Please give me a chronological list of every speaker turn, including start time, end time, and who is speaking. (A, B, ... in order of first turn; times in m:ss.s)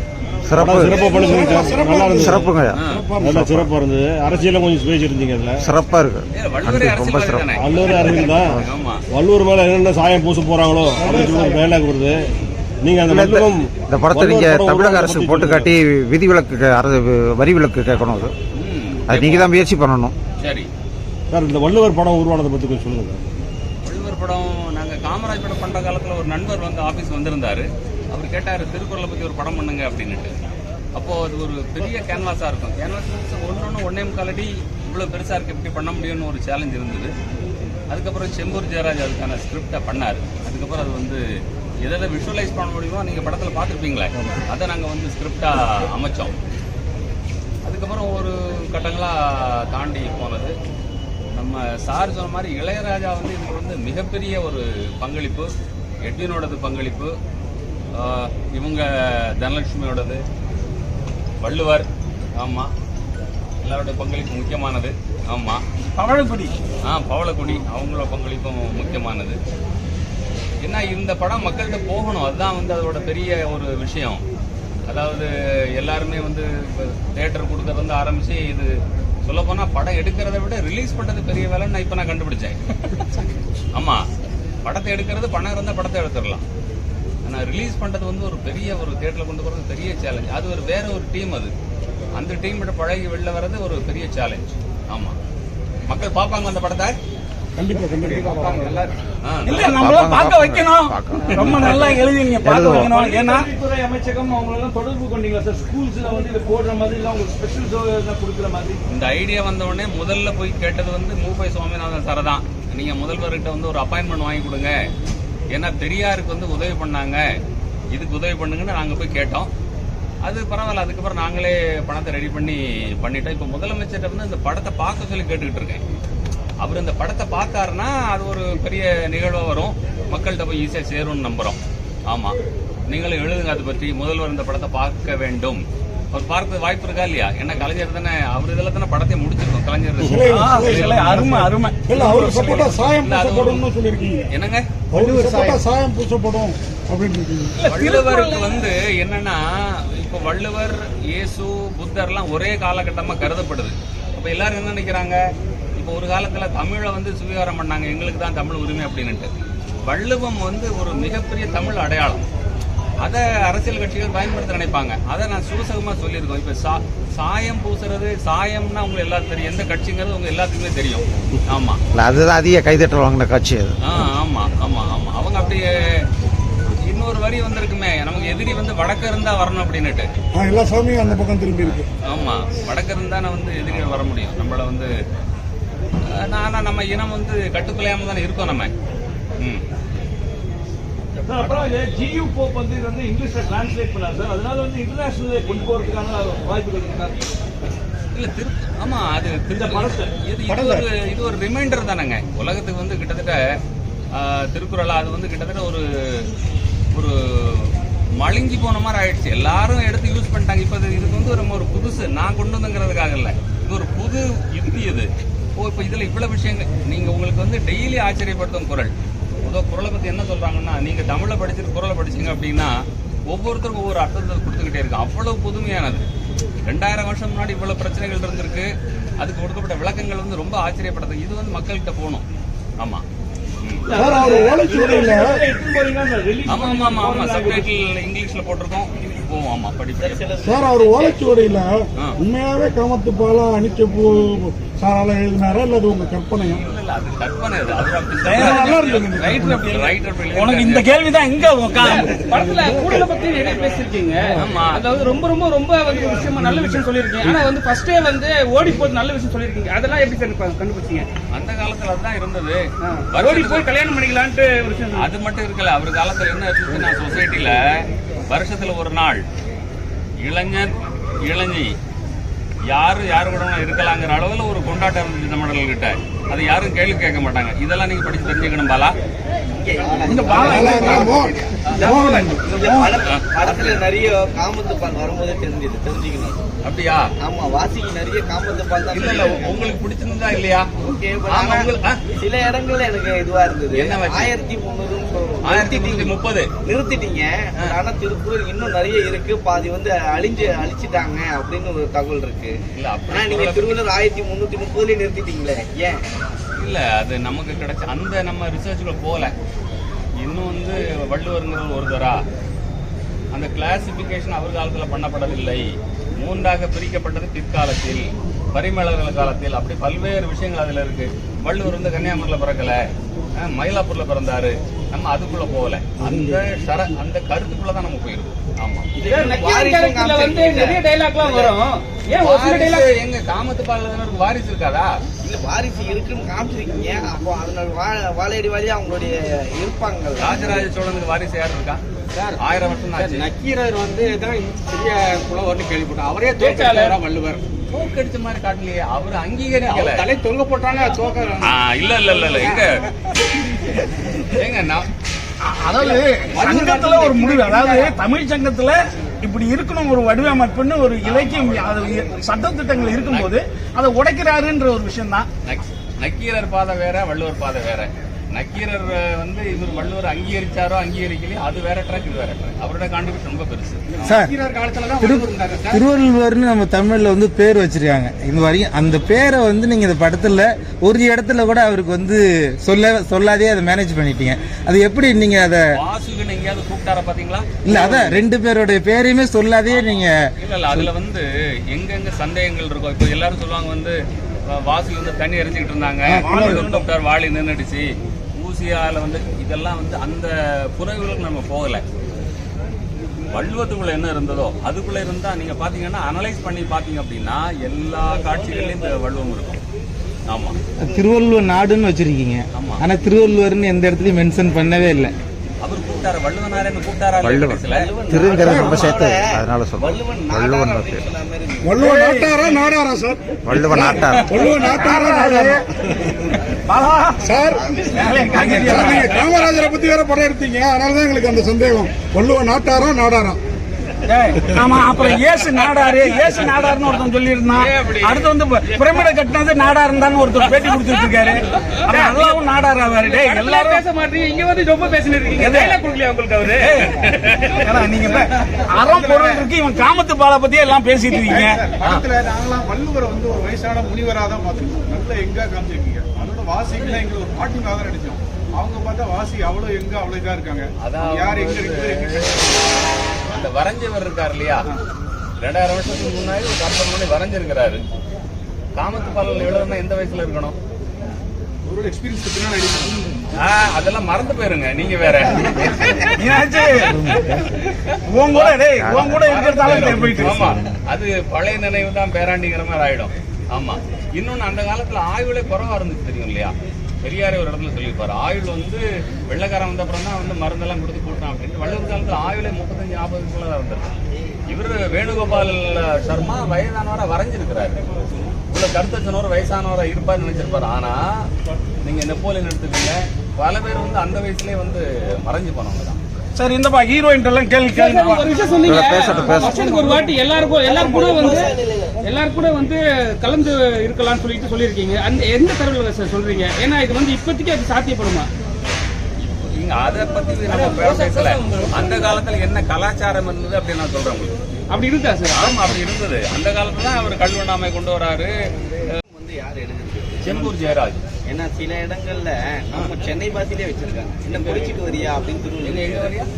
0:00.5-0:01.0 A
0:00.6-0:02.4 B
0:00.8-0:03.6 C
0:02.2-0:02.8 A
0:02.7-0:03.1 D
0:03.2-0:05.7 B
0:05.6-0:08.7 A
0:06.3-0:09.0 D
0:07.5-0:12.2 B
0:11.0-0:11.6 C
0:12.8-0:15.8 B
0:13.1-0:18.3 A
0:18.6-0:19.6 D
0:19.1-0:20.2 A
0:20.4-0:20.7 D
0:21.3-0:23.2 B
0:23.8-0:30.4 D
0:31.0-0:37.1 D
0:37.9-0:41.2 D
0:41.8-0:46.4 D
0:47.6-0:50.6 D
0:51.3-0:55.5 D
0:56.0-0:57.2 D
0:58.0-1:00.2 D
1:01.4-1:02.7 D
1:03.6-1:05.6 D
1:06.0-1:06.5 E
1:06.9-1:09.4 D
1:10.6-1:14.2 D
1:14.9-1:22.6 D
1:23.8-1:24.1 D
1:24.6-1:26.4 D
1:27.2-1:31.5 D
1:32.2-1:35.2 D
1:35.9-1:37.0 D
1:37.6-1:38.3 C
1:39.2-1:39.7 D
1:39.5-1:43.4 C
1:39.5-1:40.9 E
1:39.6-1:42.9 A
1:41.6-1:43.4 E
1:43.0-1:48.8 F
1:48.9-1:54.8 D
1:55.5-1:57.2 D
1:57.9-1:59.5 D
2:00.2-2:05.8 D
2:06.6-2:12.4 D
2:12.9-2:21.2 D
2:20.0-2:24.3 C
2:20.1-2:20.4 B
2:20.4-2:21.9 E
2:21.9-2:23.7 D
2:24.3-2:24.7 D
2:24.9-2:27.6 C
2:27.6-2:28.4 G
2:27.6-2:35.2 D
2:35.8-2:39.3 D
2:39.8-2:42.2 D
2:43.0-2:51.8 D
2:51.9-2:53.8 A
2:53.8-2:56.0 D
2:56.7-3:00.1 D
3:00.3-3:01.8 C
3:02.0-3:04.9 D
3:06.1-3:08.7 D
3:09.4-3:09.6 D
3:11.2-3:17.2 F
3:11.3-3:11.7 D
3:18.1-3:23.4 D
3:19.5-3:20.1 F
3:20.5-3:20.8 C
3:24.1-3:26.3 D
3:26.9-3:38.9 D
3:39.4-3:46.0 D
3:46.6-3:52.2 D
3:52.8-3:53.0 D
3:53.9-3:57.7 F
3:53.9-3:55.4 C
3:56.5-4:00.2 D
4:00.0-4:01.3 H
4:00.4-4:06.6 C
4:06.4-4:10.8 D
4:08.2-4:09.9 C
4:10.4-4:12.0 E
4:11.8-4:21.1 G
4:12.4-4:12.8 C
4:14.4-4:14.8 D
4:16.4-4:16.8 C
4:21.3-4:23.7 D
4:22.8-4:25.1 G
4:24.9-4:27.6 D
4:28.3-4:29.2 D
4:30.2-4:31.7 D
4:32.7-4:38.9 D
4:39.5-4:46.4 H
4:40.1-4:43.0 C
4:40.2-4:41.9 D
4:43.0-4:43.8 D
4:46.6-4:47.1 D
4:47.2-4:49.8 H
4:48.9-4:50.7 D
4:50.8-5:02.6 H
4:51.3-4:52.0 D
4:53.7-4:54.3 D
4:55.4-4:56.5 D
5:02.8-5:03.8 D
5:03.1-5:06.0 H
5:06.6-5:09.3 D
5:10.2-5:12.2 D
5:13.3-5:22.8 D
5:23.4-5:29.3 D
5:29.0-5:31.6 H
5:29.0-5:32.9 G
5:32.2-5:35.0 D
5:35.2-5:40.6 H
5:40.2-5:41.8 D
5:42.4-5:43.2 D
5:43.0-5:47.4 I
5:46.4-5:47.0 G
5:47.7-5:50.1 D
5:49.8-5:51.1 I
5:51.4-5:52.9 D
5:54.3-5:54.9 D
5:55.4-5:56.3 E
5:55.8-5:58.0 C
5:56.3-5:57.1 I
5:57.5-6:01.1 E
6:01.0-6:02.0 D
6:01.1-6:02.3 C
6:02.0-6:05.2 E
6:02.9-6:03.2 C
6:02.9-6:03.3 D
6:05.4-6:14.2 D
6:14.0-6:14.3 J
6:15.0-6:25.6 J
6:25.8-6:28.2 D
6:27.6-6:30.2 J
6:29.7-6:41.8 D
6:36.1-6:36.9 C
6:43.3-6:49.6 D
6:50.3-6:50.6 D
6:50.8-6:55.1 J
6:52.6-6:52.8 D
6:55.6-6:57.9 D
6:57.2-7:01.0 A
6:57.6-7:01.9 H
6:58.4-6:58.9 C
7:01.6-7:06.3 C
7:03.4-7:04.3 A
7:04.7-7:05.6 J
7:06.7-7:07.3 E
7:07.2-7:13.4 C
7:07.5-7:09.0 H
7:08.0-7:09.3 D
7:08.1-7:08.9 E
7:14.1-7:17.6 E
7:14.6-7:15.1 C
7:17.5-7:19.0 D
7:17.7-7:18.2 C
7:18.2-7:23.3 E
7:20.4-7:21.1 C
7:20.5-7:21.0 D
7:21.9-7:22.3 G
7:23.0-7:26.9 G
7:23.2-7:23.8 C
7:25.4-7:25.7 C
7:26.7-7:26.9 E
7:26.8-7:27.9 D
7:27.7-7:31.4 E
7:28.9-7:29.3 K
7:31.2-7:31.6 C
7:31.2-7:42.6 K
7:40.8-7:42.6 D
7:43.3-7:44.7 D
7:45.4-7:47.8 D
7:48.8-7:50.6 D
7:51.7-7:53.1 K
7:53.4-7:56.2 D
7:56.2-7:56.6 E
7:56.3-7:56.8 C
7:56.9-7:57.3 J
7:57.1-8:14.0 D
7:58.2-7:58.8 E
7:58.2-8:00.4 C
7:58.8-8:00.7 A
7:59.4-8:00.0 E
8:14.5-8:17.8 D
8:18.5-8:21.2 D
8:21.8-8:26.0 D
8:26.4-8:27.8 E
8:27.7-8:38.3 G
8:27.8-8:28.2 C
8:28.6-8:29.5 A
8:29.0-8:29.5 D
8:29.6-8:29.9 H
8:30.6-8:32.0 H
8:39.2-8:44.4 D
8:40.7-8:41.7 G
8:44.7-8:45.6 G
8:45.3-8:48.3 D
8:49.1-8:50.5 H
8:50.2-8:51.0 D
8:51.2-8:56.1 H
8:54.3-8:54.8 D
8:55.6-8:56.3 D